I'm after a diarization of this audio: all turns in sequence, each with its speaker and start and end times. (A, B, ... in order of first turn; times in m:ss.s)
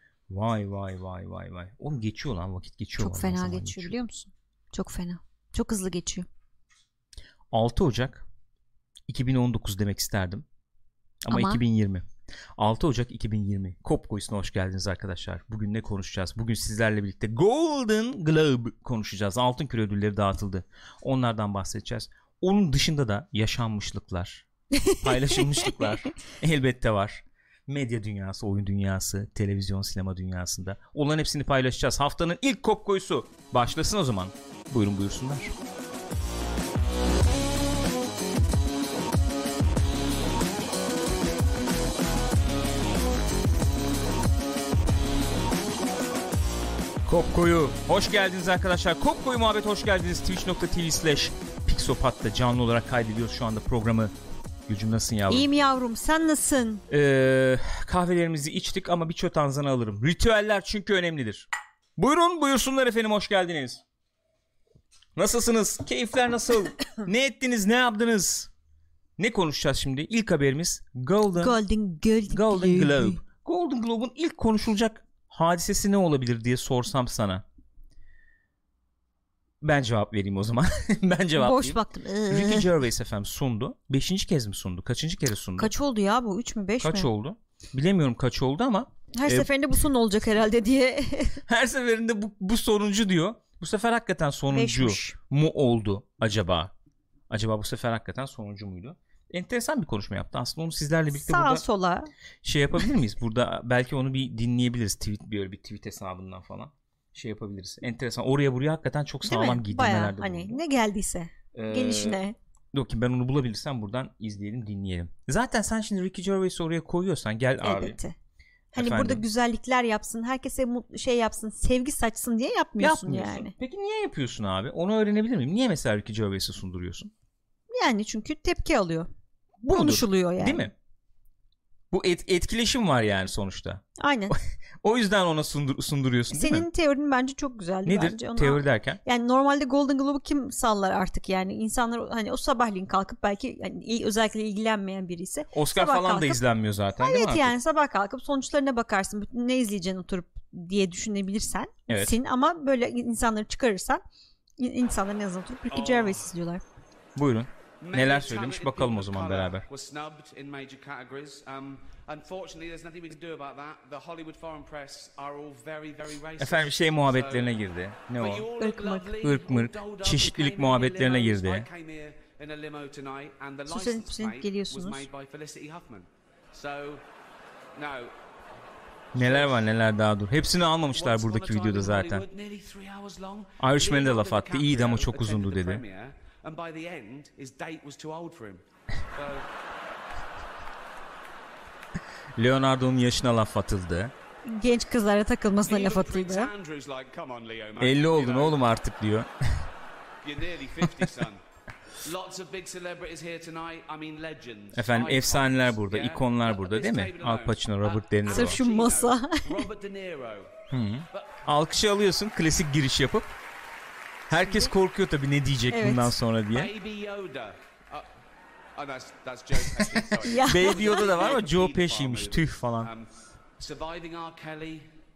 0:00.3-0:03.9 A
0:03.0-0:06.3 B
0:07.5-0:08.2 A
0:09.1-0:10.4 A
0:11.3-0:12.0 A
0:11.3-0:11.6 B
0:12.6-0:35.5 A
0:24.7-0:25.9 B
0:47.0-0:54.1 A
0:54.7-0:55.5 A
0:55.3-0:56.8 B
0:56.9-1:03.8 A
1:05.2-1:08.5 A
1:09.2-1:11.6 A
1:11.4-1:13.2 B
1:12.3-1:17.4 A
1:19.6-1:21.8 A
1:21.4-1:22.7 B
1:22.3-1:25.7 A
1:25.6-1:27.1 B
1:26.8-1:29.5 A
1:29.1-1:31.4 B
1:31.4-1:36.7 A
1:34.5-1:35.2 B
1:37.3-1:41.6 A
1:41.1-1:42.1 B
1:42.4-1:50.6 A
1:49.2-1:52.4 B
1:51.5-1:52.2 A
1:52.7-1:58.0 A
1:57.6-1:58.2 B
1:58.7-2:03.5 B
1:58.7-1:59.2 A
2:02.8-2:07.1 A
2:07.7-2:09.1 B
2:09.6-2:10.7 A
2:09.7-2:10.7 B
2:11.9-2:16.7 A
2:14.0-2:14.3 B
2:16.3-2:26.4 B
2:17.8-2:19.0 A
2:25.5-2:27.5 A
2:27.0-2:34.0 B
2:31.9-2:32.1 A
2:34.6-2:36.6 B
2:35.7-2:36.2 C
2:37.2-2:39.6 A
2:37.8-2:47.5 C
2:46.4-2:48.5 A
2:48.1-2:57.0 C
2:48.6-2:49.1 B
2:49.2-2:51.6 A
2:53.7-2:55.1 B
2:57.7-2:58.1 C
2:59.1-3:02.2 A
2:59.1-2:59.7 C
3:00.9-3:09.5 C
3:03.6-3:05.8 A
3:12.4-3:14.1 A
3:14.4-3:16.5 B
3:15.7-3:18.7 C
3:17.8-3:19.6 A
3:20.2-3:21.4 C
3:20.8-3:21.2 A
3:22.0-3:30.5 C
3:24.7-3:28.6 A
3:28.3-3:29.7 B
3:30.7-3:33.3 A
3:34.3-3:36.7 A
3:34.4-3:34.7 B
3:35.7-3:36.1 B
3:36.5-3:38.1 C
3:38.8-3:44.9 C
3:39.8-3:42.9 A
3:40.2-3:41.1 B